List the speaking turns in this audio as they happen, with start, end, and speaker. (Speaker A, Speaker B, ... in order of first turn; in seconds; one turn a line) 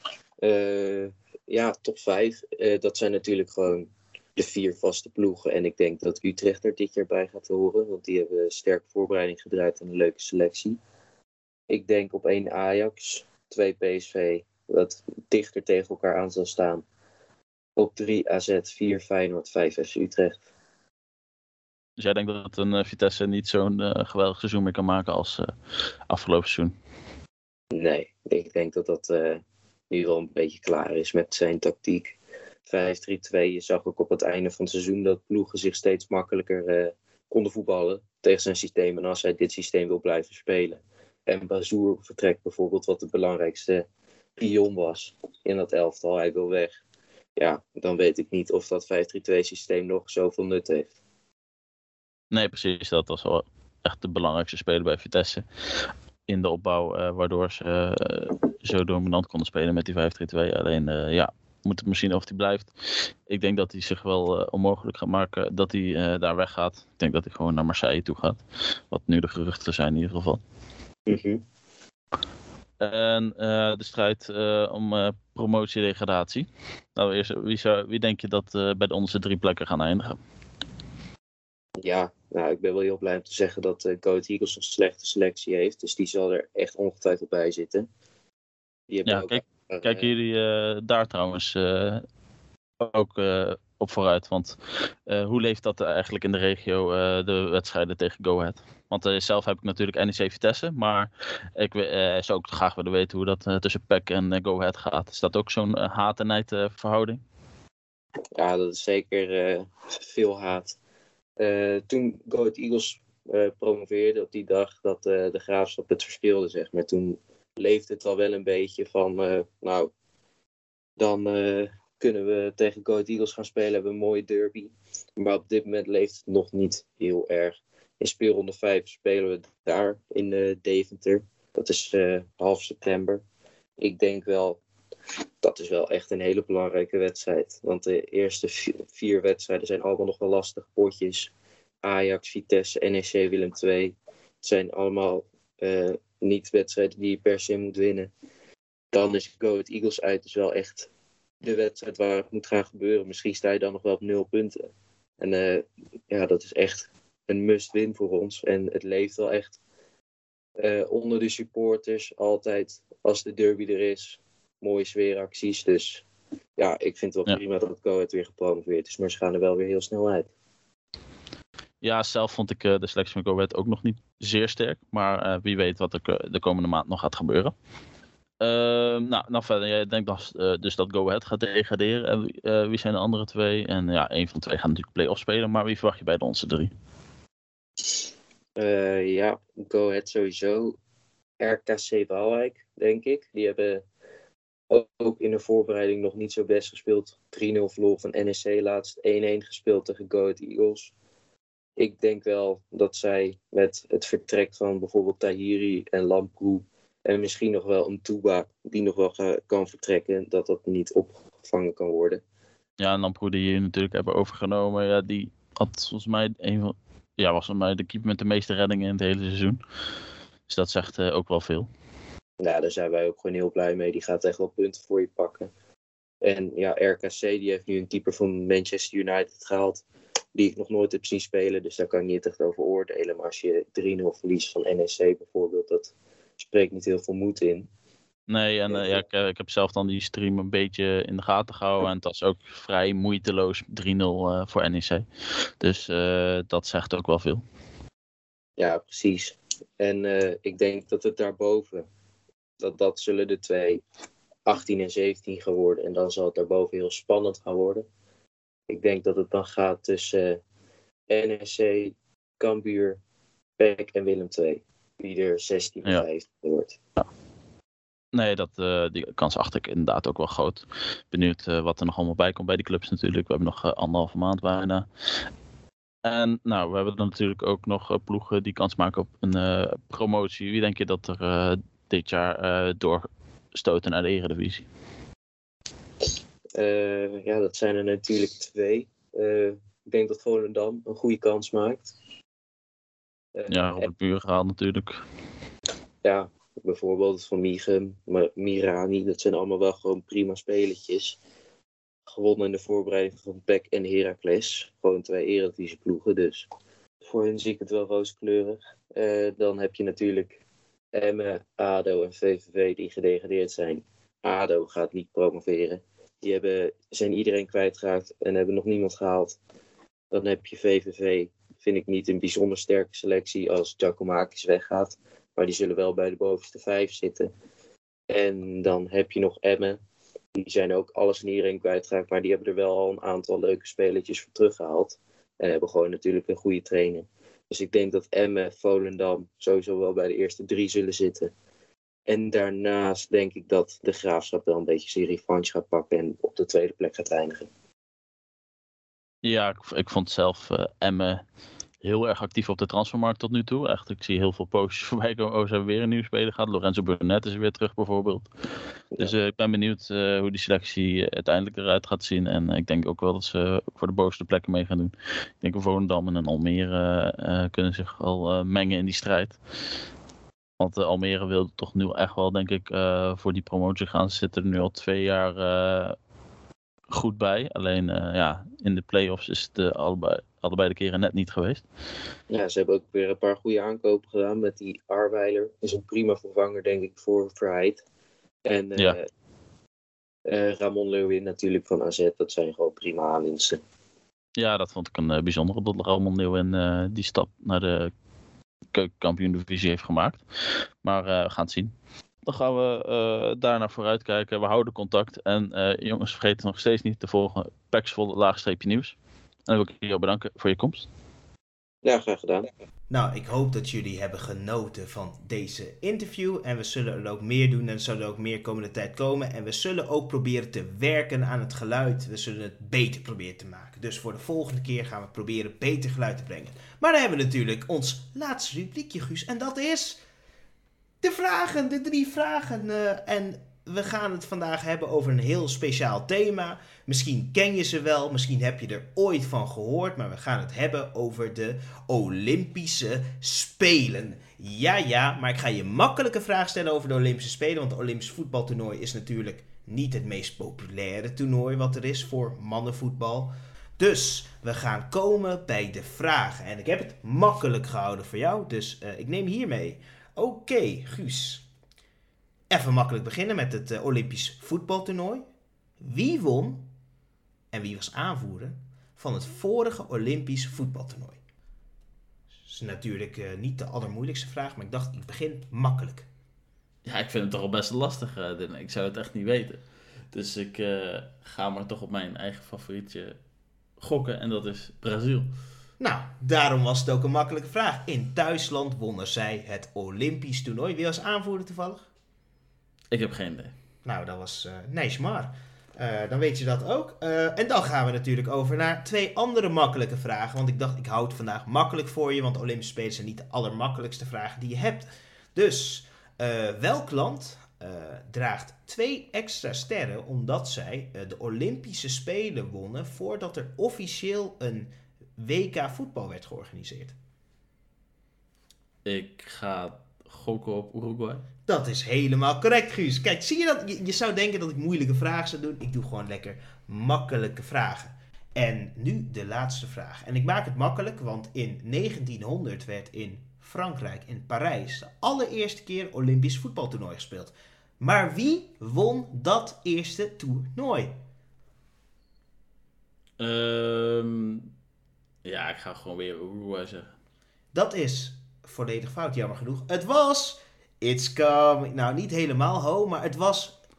Speaker A: 0.4-10.8
Speaker A: 11.7-16.8
Speaker A: 17.8-20.4
Speaker B: 22.0-25.5
Speaker B: 26.1-26.8
Speaker A: 27.7-32.1
Speaker A: 32.7-46.8
Speaker A: 47.4-50.9
Speaker B: 52.3-70.4
Speaker A: 71.1-71.4
Speaker B: 72.8-80.2
Speaker A: 81.8-87.9
Speaker A: 88.9-90.1
Speaker B: 89.0-92.0
Speaker B: 92.8-107.2
Speaker A: 108.3-110.8
Speaker A: 111.4-119.9
Speaker A: 121.0-133.2
Speaker A: 133.8-134.6
Speaker A: 135.4-141.3
Speaker A: 141.8-148.1
Speaker A: 148.9-150.9
Speaker A: 151.4-154.7
Speaker A: 155.2-159.6
Speaker A: 160.6-166.0
Speaker A: 166.6-170.3
Speaker B: 171.8-177.5
Speaker B: 178.4-186.7
Speaker A: 188.6-190.8
Speaker A: 191.4-193.8
Speaker A: 194.7-200.9
Speaker A: 201.8-212.2
Speaker B: 212.8-219.6
Speaker B: 220.5-221.7
Speaker A: 222.4-225.5
Speaker A: 226.2-229.8
Speaker A: 230.3-237.7
Speaker B: 238.3-245.0
Speaker A: 238.7-239.0
Speaker B: 245.6-247.4
Speaker A: 248.6-251.9
Speaker A: 252.6-253.8
Speaker A: 254.4-257.9
Speaker A: 258.7-260.4
Speaker A: 261.1-263.0
Speaker A: 263.6-266.8
Speaker B: 268.1-274.9
Speaker B: 276.0-284.7
Speaker A: 286.5-291.9
Speaker A: 293.3-293.9
Speaker B: 293.5-295.0
Speaker A: 296.0-301.2
Speaker A: 302.1-306.4
Speaker A: 307.0-310.4
Speaker A: 310.9-319.4
Speaker A: 320.1-327.3
Speaker A: 328.1-329.8
Speaker A: 330.4-341.3
Speaker A: 342.1-347.5
Speaker B: 349.2-351.2
Speaker B: 351.8-358.3
Speaker B: 359.0-369.4
Speaker B: 370.6-375.9
Speaker B: 376.9-381.6
Speaker A: 382.3-387.8
Speaker A: 388.4-389.1
Speaker A: 390.2-393.6
Speaker B: 394.4-397.9
Speaker B: 398.7-400.2
Speaker B: 400.8-401.7
Speaker B: 402.2-410.9
Speaker A: 411.8-412.5
Speaker C: 412.9-430.0
Speaker C: 431.0-461.4
Speaker C: 462.5-465.3
Speaker C: 465.8-466.7
Speaker C: 467.5-471.2
Speaker C: 472.4-476.1
Speaker B: 476.8-479.6
Speaker B: 480.1-483.1
Speaker B: 483.8-485.3
Speaker C: 485.8-491.9
Speaker B: 492.9-493.5
Speaker C: 493.8-517.0
Speaker B: 518.8-521.2
Speaker C: 521.5-541.0
Speaker B: 543.2-544.5
Speaker B: 545.2-546.9
Speaker C: 547.5-553.6